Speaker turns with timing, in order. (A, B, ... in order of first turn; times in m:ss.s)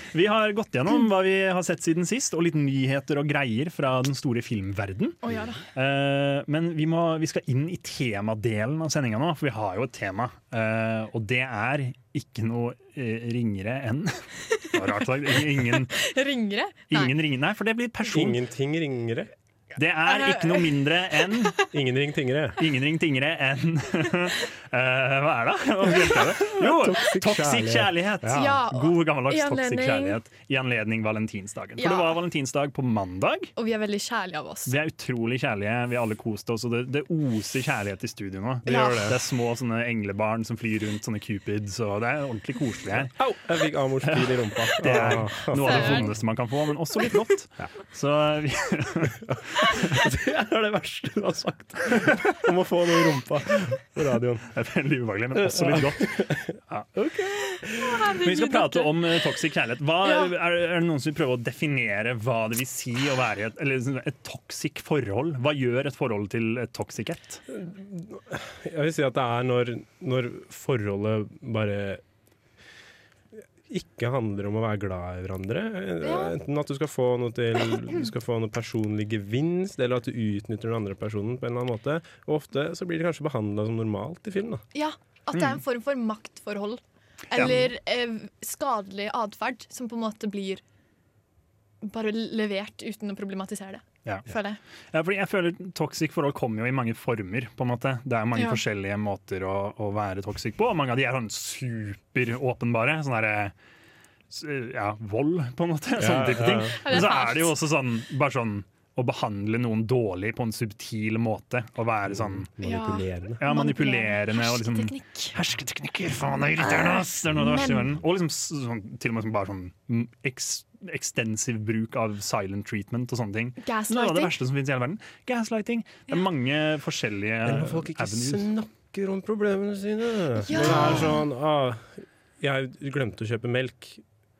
0:00.1-0:05.2 A
0:05.2-0:05.6 B
0:05.8-0:16.0 A
0:15.9-0:17.1 B
0:16.9-0:18.4 A
0:18.1-0:19.3 C
0:19.8-0:21.6 A
0:20.1-0:20.7 B
0:21.7-0:22.6 C
0:22.6-0:33.5 A
0:26.4-0:28.5 C
0:28.3-0:30.2 B
0:31.8-0:32.2 B
0:33.6-0:34.7 B
0:34.7-0:43.2 A
0:38.7-0:39.1 B
0:38.7-0:39.2 C
0:43.0-0:46.2 C
0:44.0-0:49.9 A
0:45.6-0:46.1 B
0:49.3-0:54.5 C
0:54.5-1:07.4 A
0:55.3-0:56.5 C
0:57.8-0:58.9 B
1:00.0-1:00.3 B
1:07.5-1:12.0 C
1:13.7-1:24.6 C
1:16.0-1:16.4 B
1:24.7-1:30.6 B
1:27.4-1:27.6 A
1:31.8-1:34.6 B
1:34.9-1:43.5 A
1:44.3-1:52.5 A
1:46.0-1:46.8 C
1:46.7-1:47.6 B
1:52.1-1:53.4 C
1:52.6-1:55.4 B
1:53.4-2:08.5 A
1:57.4-1:57.9 B
2:03.6-2:04.3 B
2:07.4-2:14.0 C
2:10.4-2:11.2 B
2:10.6-2:10.9 A